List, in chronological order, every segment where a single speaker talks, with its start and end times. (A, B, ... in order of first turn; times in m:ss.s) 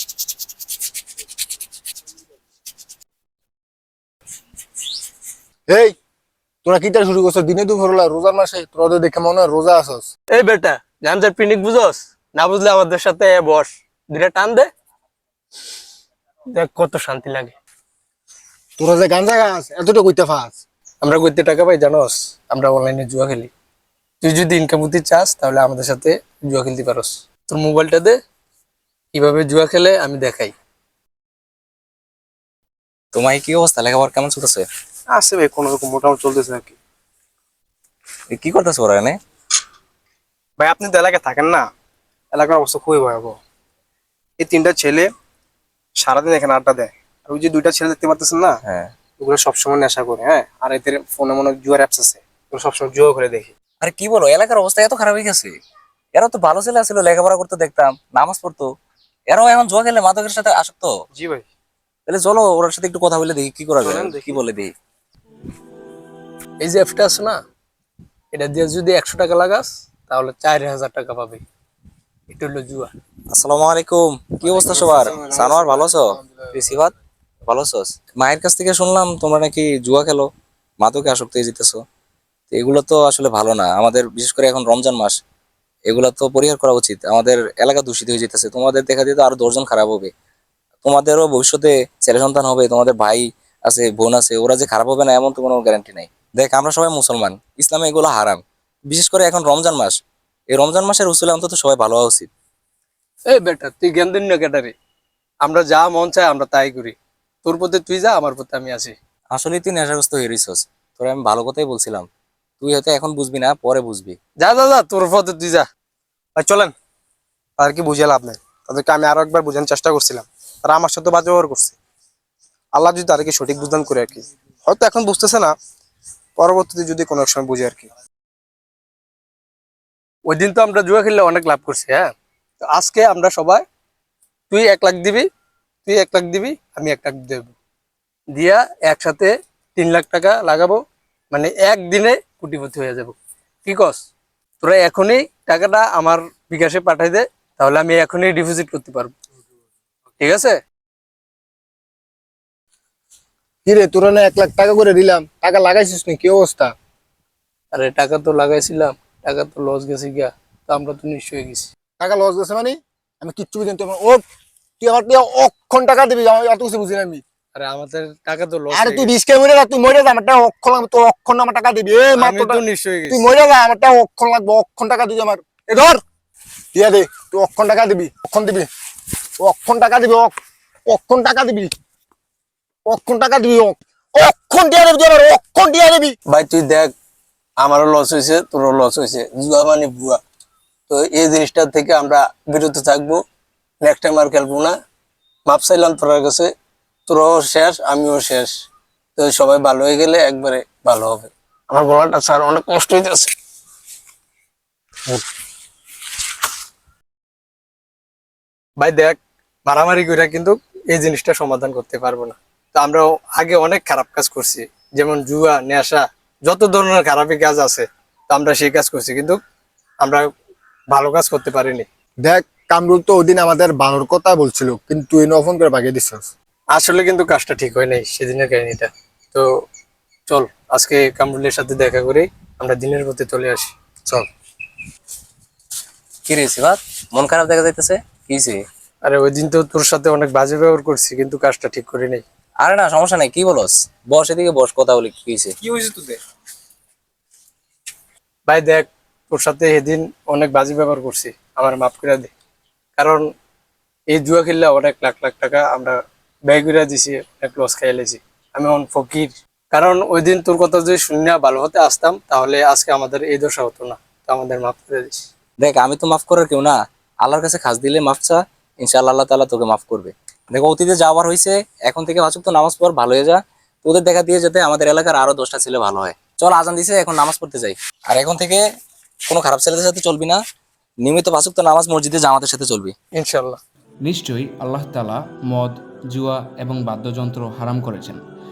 0:05.7-0:06.0 A
0:06.6-0:10.1 A
0:10.3-0:14.7 B
0:16.5-0:17.5 B
0:18.8-0:20.6 A
0:21.0-0:23.5 B
0:24.2-0:28.2 B
0:29.1-0:30.5 B
0:33.1-0:34.6 C
0:35.1-0:36.8 D
0:38.3-0:39.1 C
0:40.6-0:41.6 D
0:42.3-0:43.4 D
0:44.4-0:45.1 D
0:46.0-0:48.6 D
0:48.6-0:48.9 C
0:49.2-0:53.5 D
0:53.8-0:55.5 C
0:56.1-0:58.7 C
0:59.3-1:00.9 C
1:01.1-1:01.5 D
1:02.1-1:04.7 C
1:03.8-1:04.4 D
1:06.6-1:07.4 B
1:08.3-1:11.4 B
1:12.3-1:12.9 B
1:13.3-1:16.9 C
1:14.7-1:15.2 D
1:15.2-1:16.2 A
1:17.5-1:20.3 C
1:20.8-1:21.8 C
1:22.5-1:25.2 C
1:25.9-1:30.1 C
1:30.8-1:40.0 C
1:40.5-1:42.3 C
1:43.3-1:44.7 B
1:45.4-1:48.9 B
1:49.3-1:52.1 C
1:52.6-1:54.2 C
1:54.4-1:55.7 B
1:56.4-1:56.7 D
1:57.6-2:01.8 D
2:02.7-2:05.5 D
2:06.4-2:07.9 D
2:10.3-2:13.6 B
2:14.5-2:15.2 B
2:15.8-2:17.5 B
2:18.3-2:20.8 B
2:21.3-2:24.0 B
2:24.6-2:29.1 B
2:30.2-2:30.6 B
2:33.6-2:36.7 A
2:37.7-2:41.7 B
2:42.0-2:44.2 A
2:44.8-2:47.2 A
2:47.5-2:49.1 B
2:48.7-2:56.0 A
2:52.2-2:53.3 B
2:56.7-2:58.7 A
2:59.4-3:00.4 A
3:00.9-3:01.7 A
3:02.9-3:06.1 A
3:06.3-3:06.9 B
3:07.6-3:10.2 B
3:10.9-3:13.2 B
3:13.8-3:14.7 B
3:15.5-3:16.5 B
3:17.1-3:18.5 B
3:19.2-3:23.3 B
3:28.8-3:39.4 B
3:40.0-3:40.3 B
3:40.9-3:41.8 B
3:42.2-3:46.3 A
3:46.7-3:49.5 B
3:50.3-3:53.7 B
3:56.2-3:58.6 C
3:59.0-4:02.2 B
4:02.6-4:05.5 C
4:05.6-4:06.2 D
4:08.5-4:12.3 B
4:13.0-4:13.3 B
4:14.1-4:25.2 B
4:25.6-4:38.6 C
4:39.3-4:40.4 C
4:41.0-4:42.9 C
4:43.2-4:43.6 B
4:44.0-4:48.2 E